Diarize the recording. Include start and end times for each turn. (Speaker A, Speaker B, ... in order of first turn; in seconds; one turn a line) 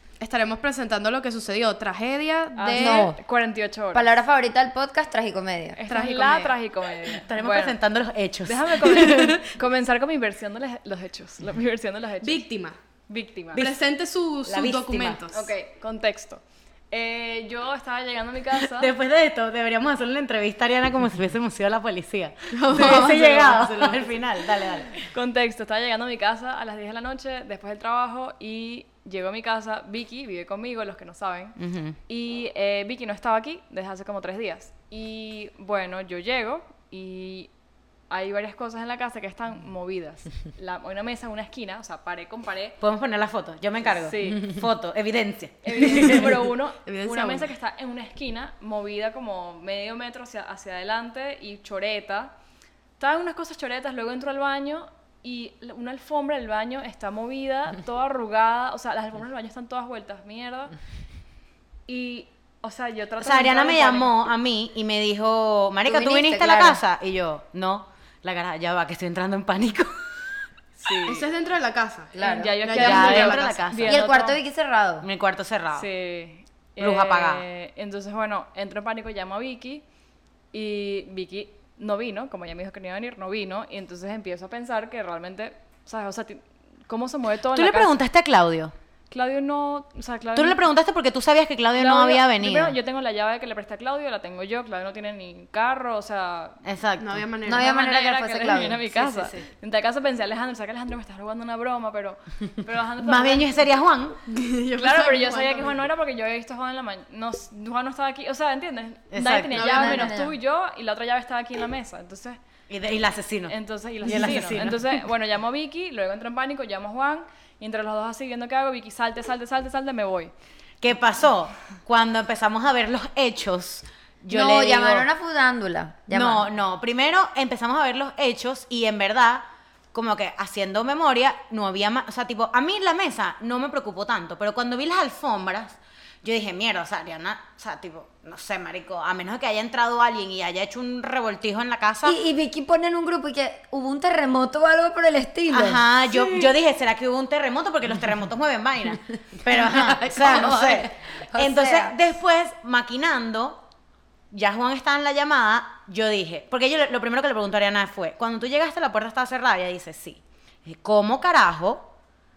Speaker A: 0.2-3.1
Speaker B: 2.5-4.2
Speaker C: 2.8-3.2
Speaker C: 3.9-5.8
Speaker B: 5.7-7.8
Speaker A: 5.9-6.5
Speaker D: 7.1-9.4
Speaker B: 8.4-12.4
Speaker A: 9.1-9.4
Speaker A: 12.2-12.8
Speaker B: 13.1-13.7
Speaker A: 13.6-15.5
Speaker D: 14.4-15.2
Speaker B: 15.3-18.9
Speaker D: 18.7-24.9
Speaker A: 22.5-24.0
Speaker B: 25.0-31.6
Speaker D: 31.6-31.9
Speaker B: 32.1-37.5
Speaker B: 38.1-42.8
Speaker D: 42.8-46.3
Speaker B: 43.8-44.5
Speaker B: 45.6-52.3
Speaker A: 45.8-46.3
Speaker A: 46.9-47.5
Speaker B: 53.0-60.7
Speaker B: 61.9-64.1
Speaker D: 63.2-70.0
Speaker C: 65.8-66.8
Speaker B: 70.8-71.3
Speaker A: 71.0-73.7
Speaker C: 72.1-72.6
Speaker B: 72.2-74.4
Speaker D: 72.7-74.0
Speaker C: 73.8-75.1
Speaker D: 75.0-75.9
Speaker B: 75.7-79.8
Speaker D: 76.8-77.4
Speaker B: 80.5-88.0
Speaker D: 87.5-88.7
Speaker B: 89.1-90.6
Speaker D: 90.3-92.7
Speaker B: 91.7-96.6
Speaker D: 96.6-97.2
Speaker A: 97.0-97.8
Speaker C: 97.5-98.8
Speaker B: 97.5-103.6
Speaker D: 98.9-99.4
Speaker D: 103.0-104.2
Speaker A: 104.2-105.8
Speaker B: 104.8-112.4
Speaker D: 109.1-109.7
Speaker A: 109.5-110.2
Speaker C: 109.6-110.3
Speaker D: 112.7-114.8
Speaker B: 113.5-120.3
Speaker A: 114.1-114.6
Speaker D: 120.8-125.1
Speaker C: 124.3-126.5
Speaker D: 126.1-142.2
Speaker C: 142.0-146.3
Speaker D: 145.5-153.6
Speaker C: 149.6-151.9
Speaker A: 149.9-150.7
Speaker D: 154.3-161.9